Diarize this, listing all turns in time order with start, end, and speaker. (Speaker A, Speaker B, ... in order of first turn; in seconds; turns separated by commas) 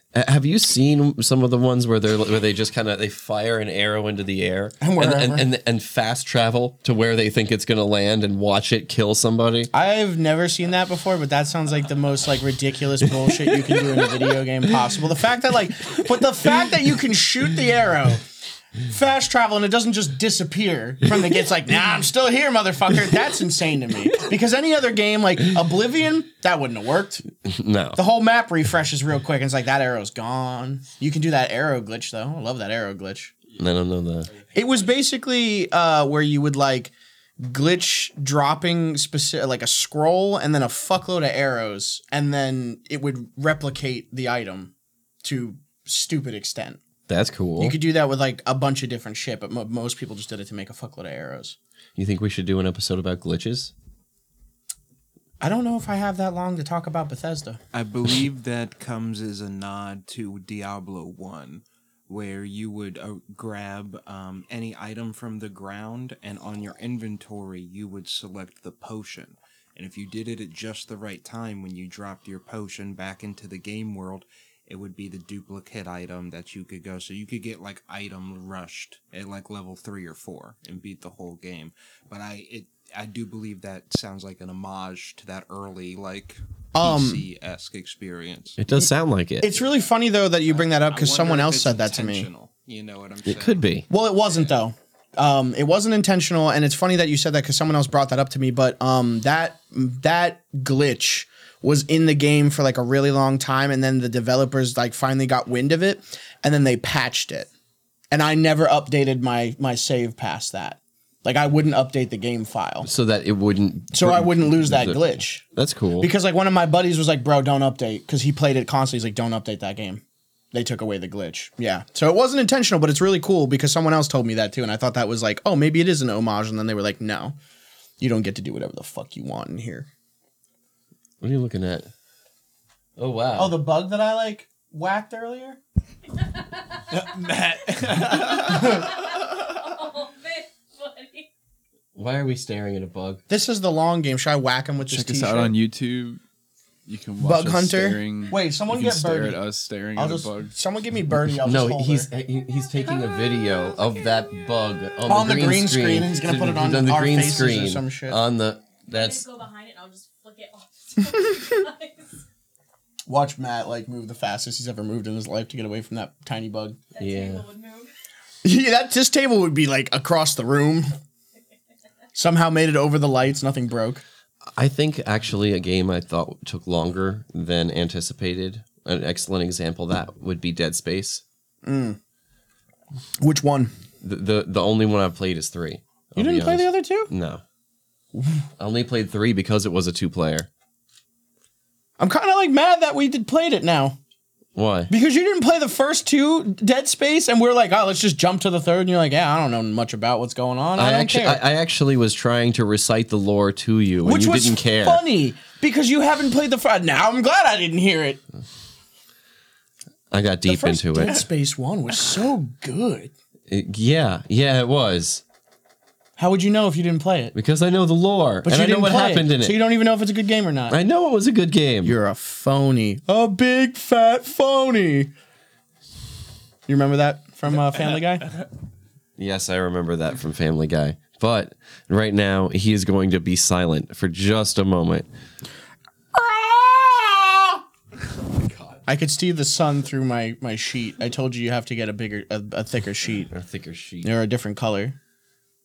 Speaker A: 0.1-9.7, Speaker B: 4.8-5.5, Speaker B: 9.7-18.2, Speaker B: 18.9-27.2, Speaker A: 27.4-28.0, Speaker B: 28.0-33.3, Speaker A: 33.6-34.3, Speaker B: 34.5-46.8, Speaker A: 47.1-47.8, Speaker B: 47.6-51.6, Speaker A: 52.0-53.7, Speaker B: 55.4-57.6, Speaker C: 57.7-88.6, Speaker B: 86.8-87.2, Speaker A: 88.6-89.5, Speaker B: 89.4-92.3, Speaker C: 90.5-93.6, Speaker A: 93.2-93.9, Speaker B: 93.9-107.5, Speaker B: 108.1-112.9, Speaker A: 112.8-116.1, Speaker B: 113.9-115.4, Speaker B: 116.0-127.3, Speaker B: 128.0-129.9, Speaker A: 131.2-131.9, Speaker A: 133.0-133.6, Speaker B: 133.4-135.6, Speaker D: 136.3-137.2, Speaker C: 136.9-138.7, Speaker D: 138.0-141.3, Speaker A: 142.0-143.2, Speaker B: 143.3-145.5, Speaker E: 144.9-146.2, Speaker E: 146.9-150.6, Speaker B: 147.2-149.4, Speaker B: 149.9-152.1, Speaker A: 151.4-159.3, Speaker B: 155.1-158.2, Speaker D: 158.8-162.1, Speaker B: 163.1-166.8, Speaker D: 166.9-167.9, Speaker A: 167.0-167.4, Speaker B: 168.4-170.9, Speaker B: 172.2-174.0, Speaker A: 174.5-181.2, Speaker B: 181.7-182.0, Speaker B: 183.2-183.7, Speaker A: 184.0-187.4, Speaker B: 186.2-187.1, Speaker A: 188.6-190.5, Speaker B: 192.0-194.0, Speaker A: 194.6-194.9, Speaker B: 194.9-201.4, Speaker A: 200.8-205.0, Speaker B: 204.0-208.2, Speaker A: 210.1-211.2, Speaker B: 210.5-213.1, Speaker A: 213.5-215.2, Speaker B: 216.2-217.3, Speaker A: 217.3-219.6, Speaker B: 218.4-220.8, Speaker A: 220.7-222.0, Speaker B: 221.8-225.1, Speaker B: 226.7-228.3, Speaker A: 229.2-235.1, Speaker B: 236.1-237.6, Speaker A: 238.4-238.8, Speaker B: 238.9-243.3, Speaker A: 243.3-244.1, Speaker B: 244.0-245.0